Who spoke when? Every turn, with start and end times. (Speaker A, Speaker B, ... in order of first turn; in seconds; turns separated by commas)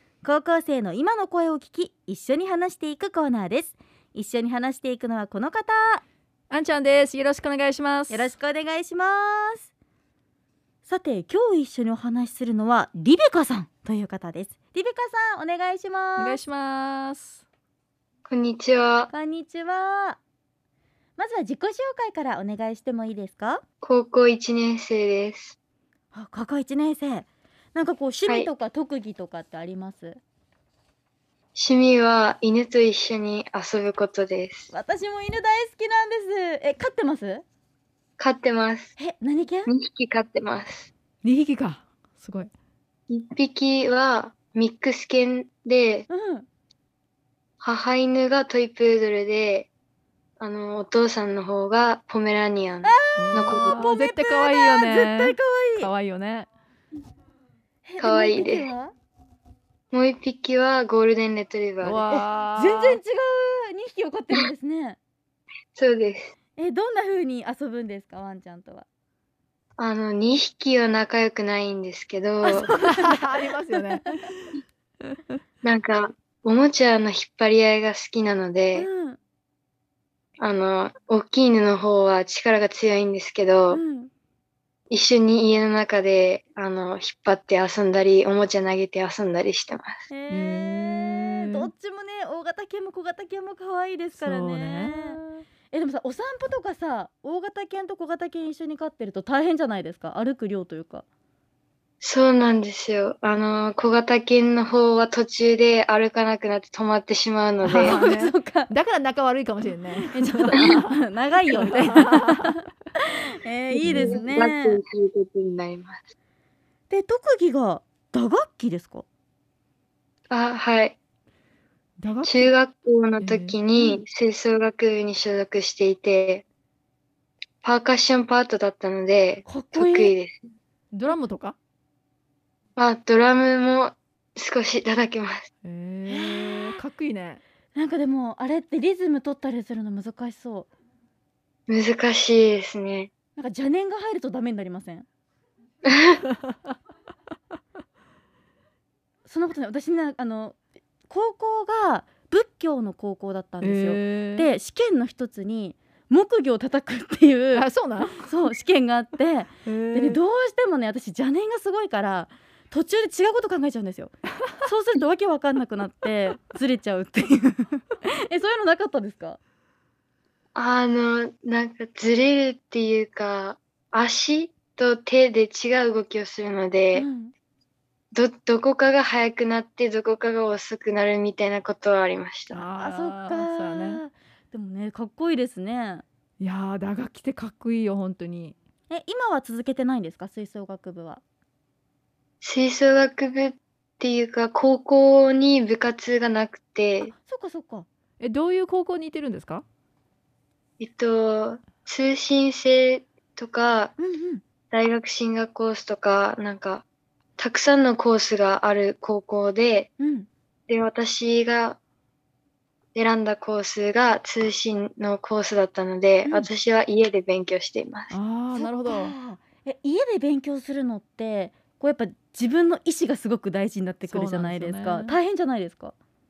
Speaker A: 0.2-6.0, Speaker B: 6.5-8.3, Speaker A: 8.1-9.7, Speaker A: 10.9-16.4, Speaker B: 16.2-17.4, Speaker C: 18.2-19.1, Speaker A: 19.1-20.2, Speaker A: 21.2-23.6, Speaker C: 23.8-25.6, Speaker A: 26.1-30.2, Speaker C: 28.2-28.5, Speaker C: 31.6-34.7, Speaker A: 34.7-37.4, Speaker C: 38.2-39.0, Speaker A: 39.0-39.7, Speaker C: 39.7-40.9, Speaker B: 41.2-42.5, Speaker C: 43.1-46.1, Speaker A: 46.1-46.5, Speaker C: 47.6-49.7, Speaker C: 50.4-53.9, Speaker A: 52.8-55.9, Speaker B: 53.2-56.5, Speaker A: 57.9-58.9, Speaker C: 58.0-58.7, Speaker C: 59.9-62.1, Speaker B: 61.8-63.0, Speaker A: 62.1-65.0, Speaker C: 65.8-66.3, Speaker A: 66.6-68.9, Speaker C: 69.8-72.7, Speaker B: 72.5-75.3, Speaker A: 72.5-74.3, Speaker C: 75.6-78.9, Speaker A: 78.8-79.2, Speaker C: 80.4-83.8, Speaker A: 83.7-84.1, Speaker C: 84.9-90.1, Speaker A: 90.1-101.0, Speaker B: 90.3-91.7, Speaker B: 94.2-95.2, Speaker C: 102.0-108.0, Speaker B: 107.6-111.0, Speaker A: 107.7-108.7, Speaker A: 110.0-112.7, Speaker B: 111.5-112.5, Speaker A: 113.4-114.8, Speaker B: 113.8-114.2, Speaker C: 113.8-116.0, Speaker A: 116.9-119.0, Speaker C: 120.3-121.0, Speaker B: 122.0-122.5, Speaker C: 122.2-126.4, Speaker B: 123.2-123.6, Speaker C: 127.6-130.4, Speaker A: 129.5-130.1, Speaker B: 130.9-131.6, Speaker C: 132.8-135.5, Speaker B: 135.6-137.4, Speaker A: 136.1-136.8, Speaker A: 137.8-140.7, Speaker C: 141.7-143.1, Speaker A: 143.4-145.1, Speaker C: 145.9-146.2, Speaker A: 149.2-157.7, Speaker B: 153.6-154.5, Speaker B: 157.5-158.3, Speaker A: 158.2-169.4, Speaker B: 159.7-160.2, Speaker C: 170.6-177.1, Speaker A: 176.9-177.3, Speaker C: 178.1-182.7, Speaker B: 182.5-184.0, Speaker A: 182.8-186.0, Speaker B: 186.4-188.6, Speaker A: 188.9-191.2, Speaker C: 192.4-197.1, Speaker A: 197.0-197.9, Speaker B: 198.2-199.6, Speaker C: 200.8-203.9, Speaker A: 204.0-204.4, Speaker C: 204.7-206.8, Speaker C: 207.4-209.9, Speaker A: 210.0-210.3, Speaker C: 210.7-211.8, Speaker C: 212.9-218.2, Speaker A: 216.2-216.5, Speaker B: 218.1-219.1, Speaker A: 218.6-225.9, Speaker B: 224.1-225.2